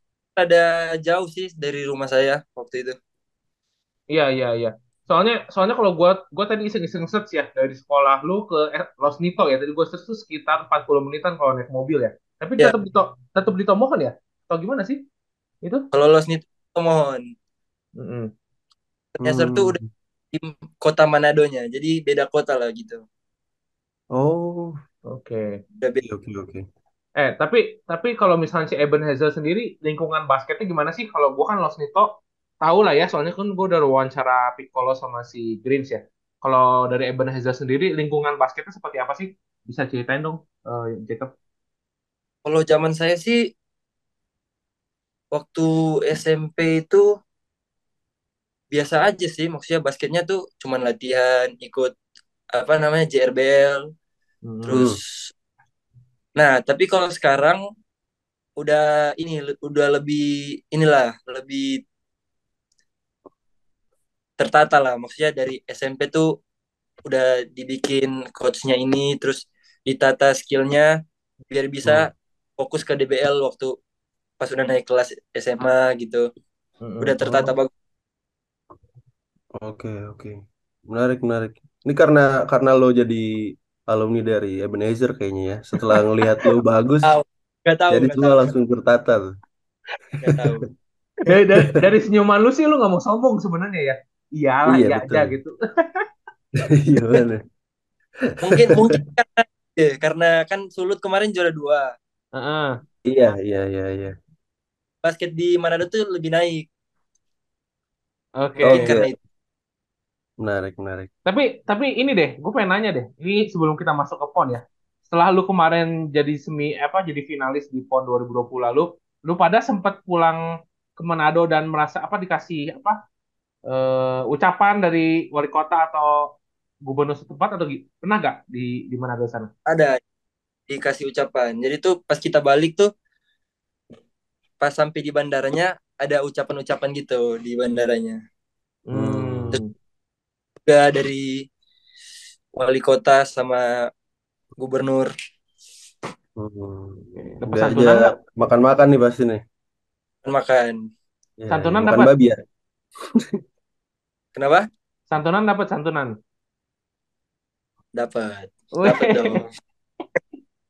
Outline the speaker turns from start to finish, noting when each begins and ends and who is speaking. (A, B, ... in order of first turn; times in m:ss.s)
0:00.4-0:03.0 A
0:04.1-0:15.0 B
0:15.9-0:17.2 A
0:18.0-0:18.3 B
0:19.2-0:19.8 A
0:19.2-0:19.9 C
0:20.3-0:23.0 A
0:24.1-0:24.7 C
0:25.1-0:25.6 B
0:25.8-0:26.1 A
0:26.0-0:26.6 C
0:27.2-0:41.3 B
0:42.4-0:43.4 A
0:45.3-0:47.0 A
0:48.7-0:51.9 A
0:52.5-0:53.8 A
0:54.4-0:54.8 B
0:54.7-0:55.3 A
0:56.4-0:57.6 A
0:58.6-1:01.8 A
1:04.4-1:06.3 A
1:07.0-1:10.9 A
1:11.5-1:13.7 A
1:14.4-1:16.2 A
1:16.8-1:17.5 B
1:17.0-1:17.7 A
1:19.6-1:23.3 C
1:23.9-1:27.1 C
1:27.0-1:28.5 A
1:27.9-1:29.3 C
1:30.2-1:30.7 A
1:30.2-1:30.5 C
1:31.2-1:36.0 B
1:34.7-1:35.3 C
1:36.7-1:37.4 C
1:38.3-1:38.9 C
1:38.4-1:41.9 A
1:42.4-1:42.7 B
1:43.1-1:44.1 C
1:45.0-1:46.6 A
1:48.4-1:49.1 B
1:48.6-1:48.9 C
1:48.7-1:49.2 A
1:50.4-1:51.1 C
1:51.2-2:00.4 B
2:01.0-2:03.0 B
2:03.7-2:06.4 B
2:06.9-2:09.5 B
2:09.7-2:10.0 A
2:10.7-2:12.9 A
2:14.6-2:18.2 A
2:18.9-2:19.7 B
2:18.9-2:19.6 C
2:20.6-2:21.3 A
2:22.6-2:23.6 A
2:24.6-2:25.1 A
2:26.4-2:29.4 C
2:27.4-2:28.1 B
2:30.2-2:30.8 A
2:31.4-2:32.4 C
2:31.5-2:32.1 B
2:33.0-2:33.4 C
2:34.4-2:34.6 A
2:35.1-2:36.1 B
2:38.0-2:39.4 A
2:38.8-2:39.4 B